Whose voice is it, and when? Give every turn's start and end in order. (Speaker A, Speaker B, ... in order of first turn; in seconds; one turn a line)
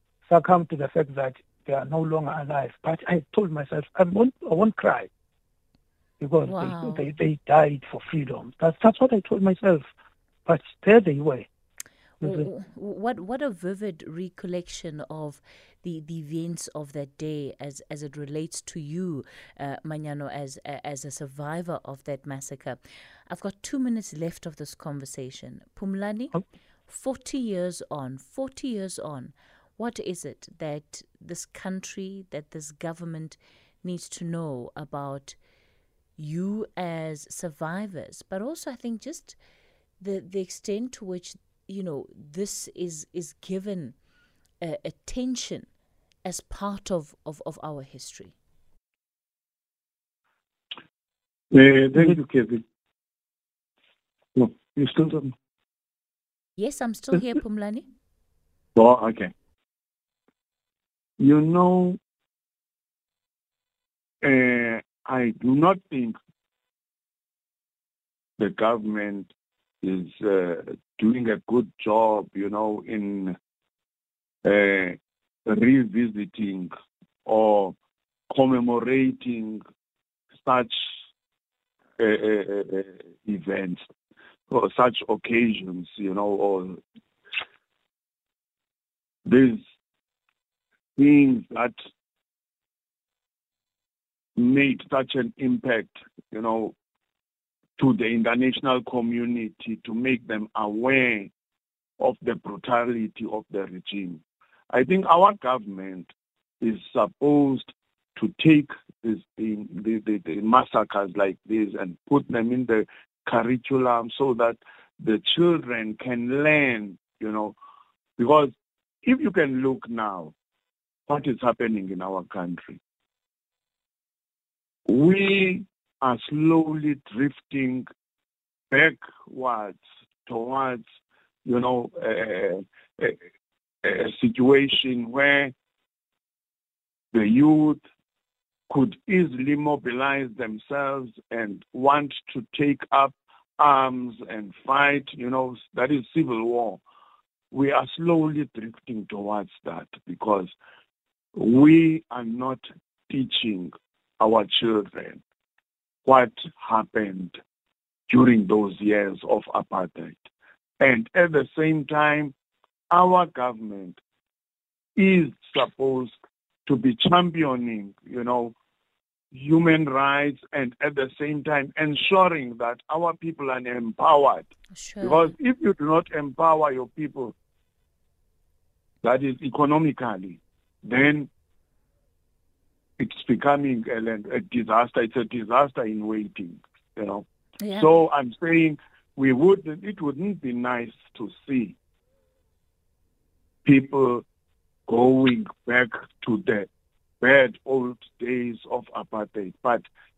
Speaker A: 0.3-5.1
Speaker A: 6.2-9.9
Speaker B: 6.5-7.1
Speaker A: 10.5-11.5
Speaker B: 12.2-35.4
Speaker A: 12.2-12.5
Speaker B: 36.2-39.4
Speaker B: 40.0-44.0
Speaker B: 44.6-45.7
Speaker B: 46.2-48.4
Speaker C: 51.5-52.6
Speaker C: 54.4-55.3
Speaker B: 56.6-57.9
Speaker C: 58.8-59.3
Speaker C: 61.2-62.0
Speaker C: 64.2-66.2
Speaker C: 68.4-69.3
Speaker C: 69.8-73.3
Speaker C: 74.4-76.7
Speaker C: 77.3-77.8
Speaker C: 78.3-79.6
Speaker C: 80.4-80.9
Speaker C: 82.0-83.9
Speaker C: 84.5-86.8
Speaker C: 89.2-89.6
Speaker C: 91.0-91.8
Speaker C: 94.4-96.8
Speaker C: 97.8-101.3
Speaker C: 102.0-106.1
Speaker C: 106.6-117.5
Speaker C: 118.2-118.5
Speaker C: 119.0-120.3
Speaker C: 121.1-122.8
Speaker C: 124.9-127.9
Speaker C: 128.7-130.8
Speaker C: 131.4-133.2
Speaker C: 133.8-135.5
Speaker C: 137.1-137.8
Speaker C: 138.7-146.8
Speaker C: 147.5-150.5
Speaker C: 151.3-155.2
Speaker C: 156.1-157.4
Speaker C: 158.1-160.3
Speaker C: 160.8-162.3
Speaker C: 162.9-164.0
Speaker C: 165.0-166.1
Speaker C: 166.7-168.6
Speaker C: 169.3-174.5
Speaker B: 174.7-175.3
Speaker C: 175.0-177.3
Speaker C: 179.0-181.3
Speaker C: 183.0-187.2
Speaker B: 187.6-187.9
Speaker C: 187.8-191.8
Speaker C: 193.7-194.2
Speaker C: 194.9-196.7
Speaker C: 197.2-199.8